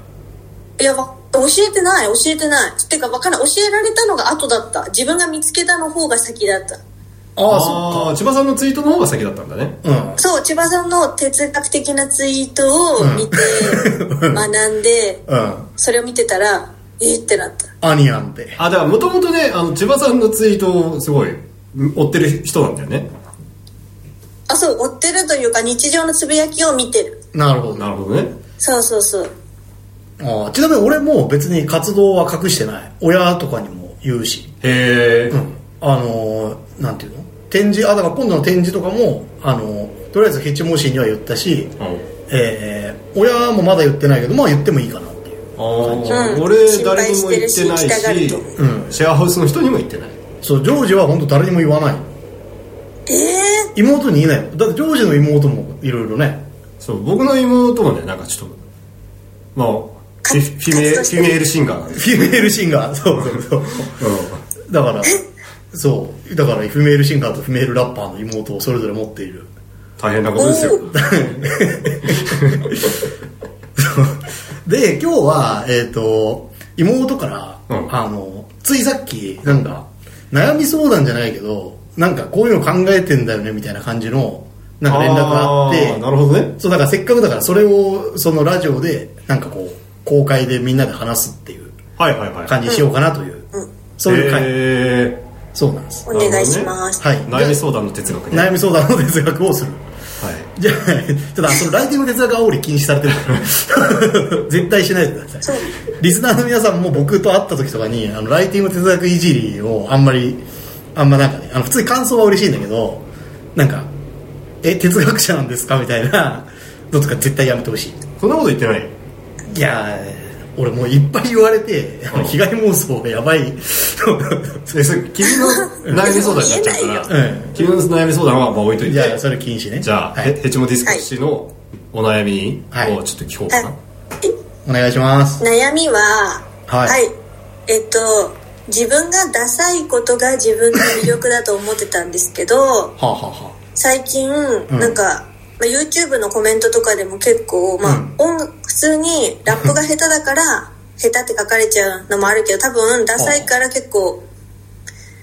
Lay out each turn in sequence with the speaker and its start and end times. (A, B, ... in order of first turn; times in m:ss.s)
0:00.8-0:06.8 A
0:07.4-0:08.1 B
0:07.5-0:09.8 C
0:09.8-0:10.2 B
0:10.2-0:15.2 A
0:13.0-0:14.4 B
0:15.3-0:15.7 B
0:15.8-0:17.7 A
0:17.8-0:18.6 B
0:18.6-0:23.1 C
0:24.5-0:27.2 A
0:27.3-0:27.9 B
0:27.8-0:28.3 C
0:28.6-0:29.3 A
0:30.2-0:34.5 B
0:34.6-0:35.4 C
0:35.3-0:41.7 B
0:41.8-0:42.1 C
0:42.3-0:46.4 B
0:45.6-0:50.2 C
0:46.1-0:48.6 A
0:48.6-0:48.9 B
0:50.4-0:52.1 B
0:53.1-0:53.7 A
0:53.8-0:56.5 B
0:56.8-0:58.6 C
0:59.6-1:02.5 C
1:00.2-1:01.4 A
1:02.0-1:03.9 B
1:03.2-1:04.4 C
1:04.7-1:09.5 B
1:10.0-1:11.0 C
1:10.4-1:10.8 A
1:10.9-1:13.0 B
1:12.1-1:12.6 C
1:13.8-1:26.0 B
1:24.9-1:26.5 C
1:26.6-1:31.8 B
1:32.0-1:32.6 C
1:32.5-1:33.5 B
1:34.0-1:34.5 B
1:34.1-1:35.2 C
1:35.6-1:36.1 B
1:36.1-1:37.0 A
1:36.1-1:38.5 C
1:37.0-1:37.6 B
1:38.3-1:39.8 B
1:40.2-1:40.5 C
1:40.6-1:50.4 B
1:45.4-1:45.7 A
1:51.0-1:53.9 B
1:54.6-1:58.0 B
1:58.2-1:58.9 C
1:59.5-2:04.7 B
2:02.1-2:02.4 C
2:04.7-2:09.2 C
2:05.2-2:07.1 A
2:07.1-2:07.7 B
2:08.8-2:10.3 B
2:09.8-2:13.8 C
2:14.6-2:15.4 B
2:15.4-2:17.1 A
2:16.7-2:17.0 B
2:17.7-2:22.9 A
2:23.0-2:23.6 B
2:23.8-2:34.2 A
2:24.7-2:25.0 B
2:27.8-2:28.1 B
2:33.2-2:33.5 B